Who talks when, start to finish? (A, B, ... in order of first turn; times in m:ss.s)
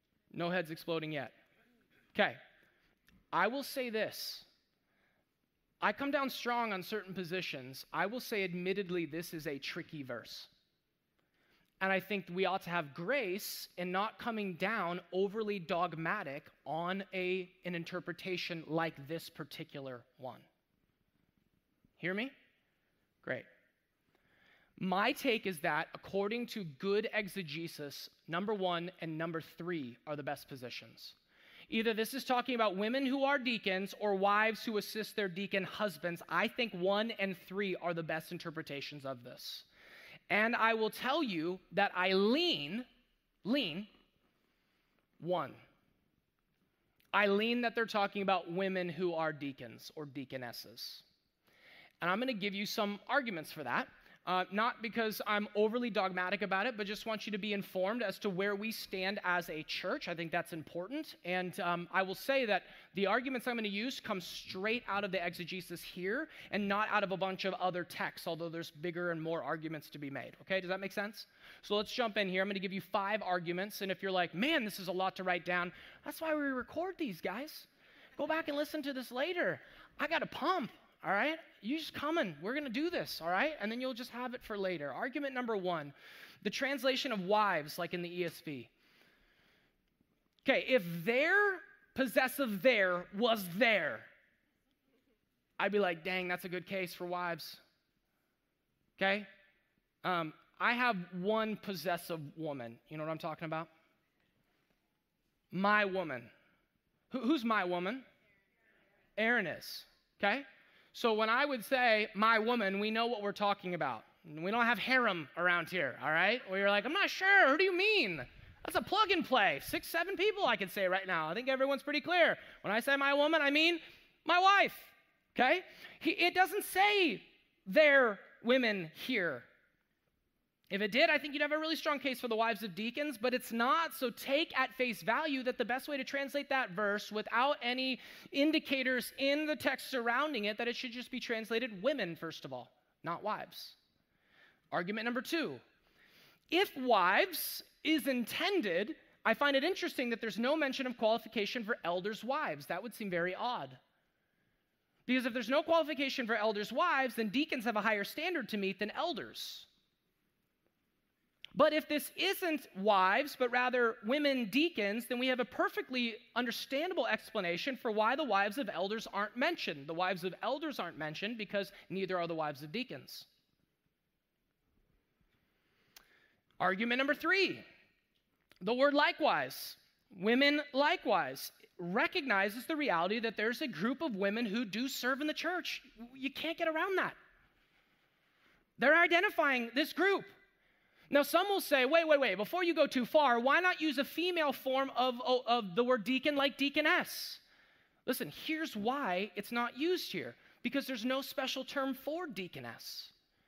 0:00.3-0:01.4 A
0:02.1-0:02.4 A
0:03.3-0:04.5 A
0:05.8-0:10.5 A
0:11.8-0:20.5 A
0:22.0-0:22.3 A
0:23.2-0:23.5 A
0:24.8-0:31.2 A
0:31.7-0:39.7 A
0:40.3-0:42.8 A
0:43.4-0:43.9 A
0:45.2-0:45.6 A
0:47.1-0:51.0 A
0:52.0-1:28.7 A
1:30.4-1:34.1 A
1:35.6-1:37.6 A
1:39.0-1:39.3 A
1:40.0-1:43.7 A
1:45.5-1:46.3 A
1:47.1-1:48.0 A
1:49.2-2:09.5 A
2:10.7-2:23.8 A
2:24.7-2:25.6 A
2:26.5-2:33.8 A
2:35.0-2:39.7 A
2:41.5-2:53.3 A
2:56.6-2:57.6 A
2:58.6-3:07.2 A
3:08.8-3:10.3 A
3:11.1-3:17.4 A
3:18.0-3:23.1 A